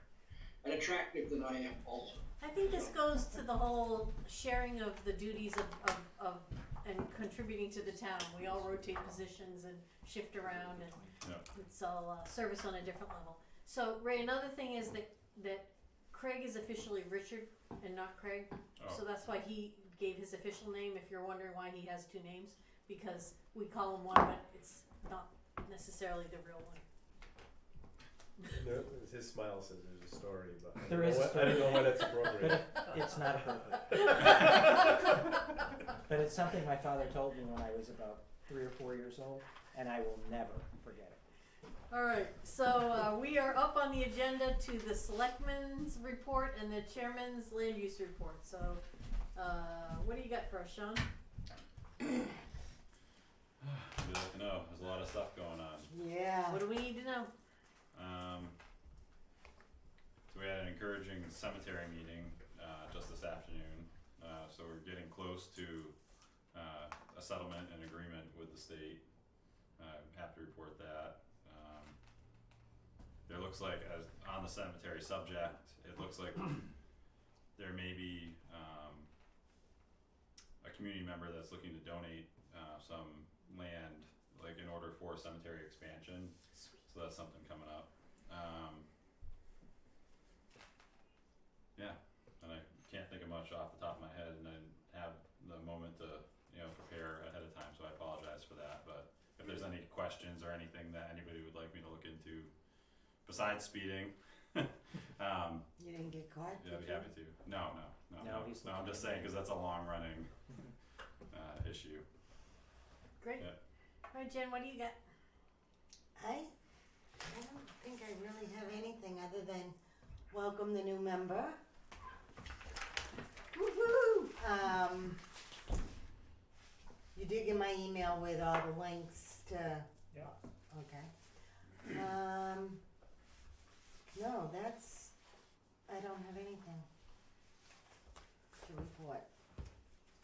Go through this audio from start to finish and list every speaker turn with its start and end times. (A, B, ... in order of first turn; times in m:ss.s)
0:00.6-0:02.9 A
0:02.4-0:26.8 B
0:18.8-0:19.0 C
0:28.5-0:32.9 D
0:30.8-0:35.2 E
0:36.0-0:41.2 E
0:41.9-0:48.8 B
0:49.3-0:51.1 B
0:53.6-0:55.9 C
0:55.9-0:56.6 F
0:56.5-0:57.3 B
0:57.9-0:58.6 C
1:00.3-1:05.9 C
1:06.5-1:09.0 C
1:09.8-1:12.0 C
1:13.3-1:16.7 C
1:17.6-1:19.1 C
1:20.6-1:26.3 C
1:26.6-1:26.8 B
1:26.9-1:28.9 C
1:31.8-1:42.5 C
1:43.2-1:45.6 C
1:45.8-1:47.1 F
1:46.5-1:50.3 C
1:48.2-1:49.4 E
1:51.3-1:52.0 C
1:53.2-1:53.5 B
1:54.1-1:55.0 B
1:56.2-1:56.5 F
1:57.2-1:59.8 F
2:00.3-2:01.6 F
2:03.6-2:05.2 F
2:07.2-2:09.9 F
2:10.7-2:11.1 F
2:11.8-2:12.8 F
2:14.1-2:15.1 F
2:15.9-2:16.9 F
2:18.6-2:19.3 F